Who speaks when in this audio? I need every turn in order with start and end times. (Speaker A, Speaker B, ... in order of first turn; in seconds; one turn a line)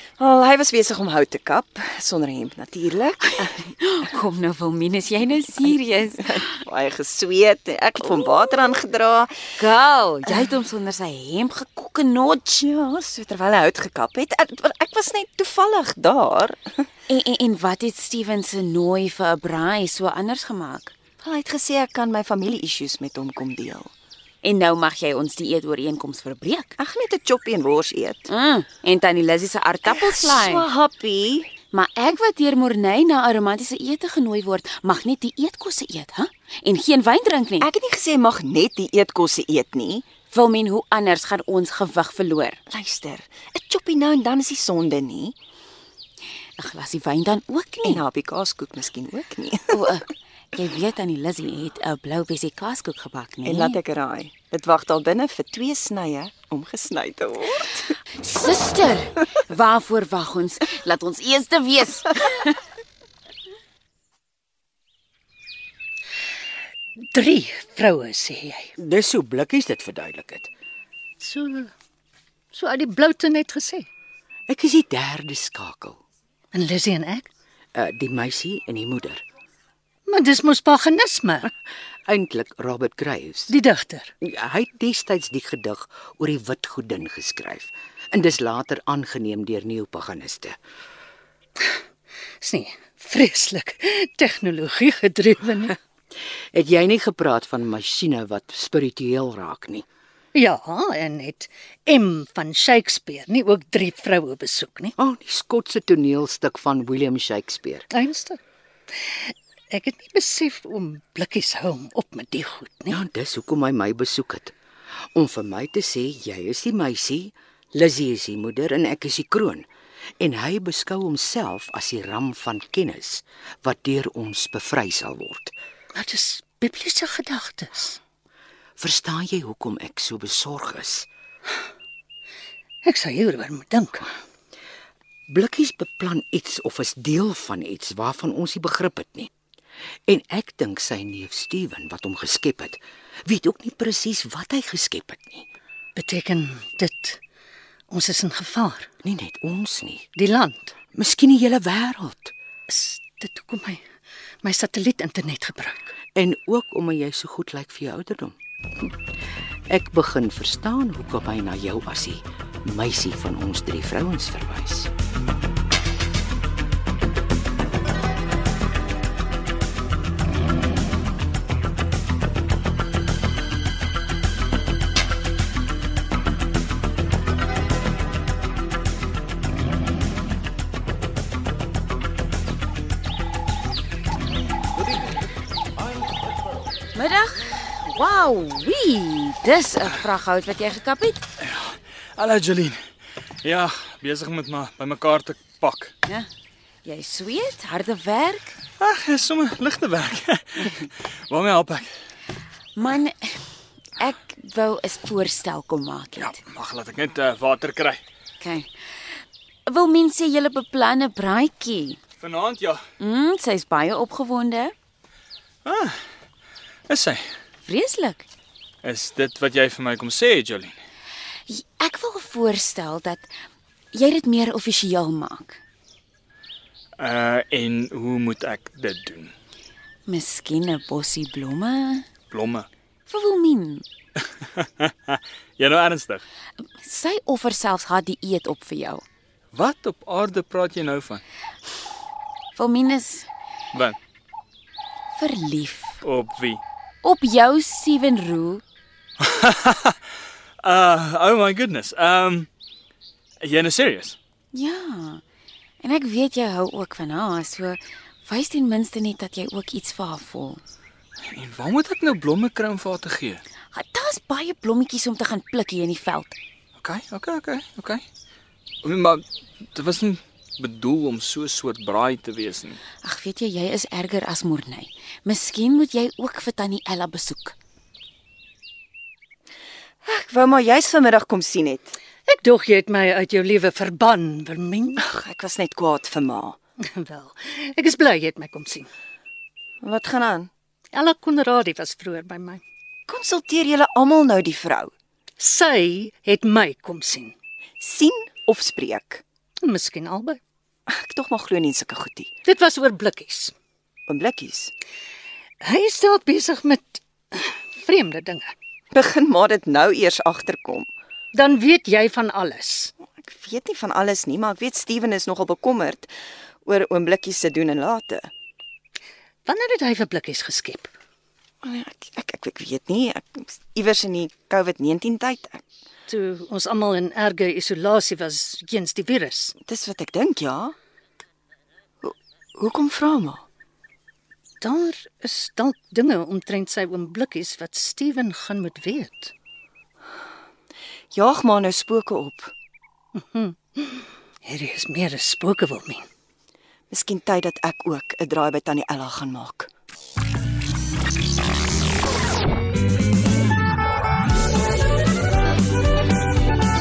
Speaker A: 0.2-3.7
Speaker B: 3.8-6.5
Speaker A: 6.2-9.4
Speaker B: 9.6-12.7
Speaker A: 12.6-16.9
Speaker B: 17.1-20.9
Speaker A: 21.2-23.9
Speaker B: 24.4-26.8
Speaker A: 26.8-28.3
Speaker B: 28.3-30.7
Speaker A: 29.9-31.5
Speaker B: 31.7-37.7
Speaker A: 37.6-40.1
Speaker B: 40.3-42.6
Speaker A: 42.7-45.4
Speaker B: 46.6-48.0
Speaker A: 47.8-50.0
Speaker B: 49.7-53.8
Speaker A: 53.5-58.0
Speaker B: 58.2-62.6
Speaker C: 67.1-68.7
Speaker D: 68.8-70.5
Speaker C: 71.2-71.7
Speaker C: 72.5-73.9
Speaker D: 74.5-76.0
Speaker C: 76.5-77.3
Speaker D: 77.8-79.2
Speaker C: 80.1-81.5
Speaker D: 82.1-83.5
Speaker C: 83.5-84.1
Speaker D: 84.2-90.6
Speaker C: 92.4-95.8
Speaker D: 96.5-99.9
Speaker C: 100.3-105.0
Speaker D: 105.0-107.9
Speaker C: 107.9-108.4
Speaker C: 109.1-113.0
Speaker D: 112.9-114.5
Speaker D: 115.2-119.7
Speaker D: 120.2-125.5
Speaker C: 126.0-128.0
Speaker D: 128.8-131.1
Speaker C: 132.8-134.1
Speaker D: 135.3-139.3
Speaker D: 140.1-145.5
Speaker C: 145.9-147.2
Speaker C: 147.9-148.9
Speaker D: 149.0-150.1
Speaker C: 150.2-150.8
Speaker D: 150.9-152.3
Speaker C: 152.7-153.8
Speaker C: 154.4-155.9
Speaker D: 156.2-158.8
Speaker D: 159.7-164.9
Speaker B: 186.9-191.2
Speaker E: 191.4-192.8
Speaker E: 193.4-195.9
Speaker B: 196.8-198.6
Speaker E: 198.8-201.9
Speaker B: 202.8-206.3
Speaker E: 206.2-208.0
Speaker B: 208.4-212.0
Speaker E: 212.2-212.9
Speaker B: 213.0-214.7
Speaker E: 215.7-216.0
Speaker E: 216.9-217.3
Speaker B: 217.7-218.3
Speaker E: 218.8-220.8
Speaker B: 221.5-223.3
Speaker B: 223.9-225.6
Speaker E: 227.0-229.3
Speaker B: 230.1-232.1
Speaker E: 232.3-232.7
Speaker B: 233.1-233.9
Speaker E: 234.6-236.2
Speaker B: 236.8-239.1
Speaker E: 239.5-241.2
Speaker B: 242.6-243.3
Speaker B: 245.2-246.0
Speaker E: 246.0-246.6
Speaker B: 247.0-248.6
Speaker E: 249.2-250.0
Speaker E: 250.6-252.5
Speaker E: 253.4-254.2
Speaker B: 254.5-255.2
Speaker B: 255.8-260.6
Speaker E: 261.3-263.4
Speaker B: 263.7-266.4
Speaker E: 266.8-268.0
Speaker E: 268.8-272.8
Speaker B: 273.0-277.6
Speaker A: 280.0-282.0
Speaker C: 282.3-285.0
Speaker A: 285.1-286.6
Speaker C: 286.9-288.9
Speaker A: 289.8-290.5
Speaker C: 290.9-292.6
Speaker A: 293.1-294.9
Speaker C: 295.4-297.3
Speaker A: 297.8-299.2
Speaker C: 299.6-300.4
Speaker A: 300.9-302.3
Speaker C: 302.4-303.5
Speaker A: 304.1-304.7
Speaker C: 305.6-308.5
Speaker A: 308.9-310.9
Speaker C: 311.3-312.9
Speaker A: 313.2-316.1
Speaker A: 316.6-318.3
Speaker C: 319.5-320.9
Speaker A: 321.6-325.6
Speaker C: 326.1-329.6
Speaker A: 329.7-330.8
Speaker A: 332.0-333.4
Speaker C: 334.6-339.3
Speaker A: 341.1-342.5
Speaker C: 343.2-346.1
Speaker A: 346.9-349.7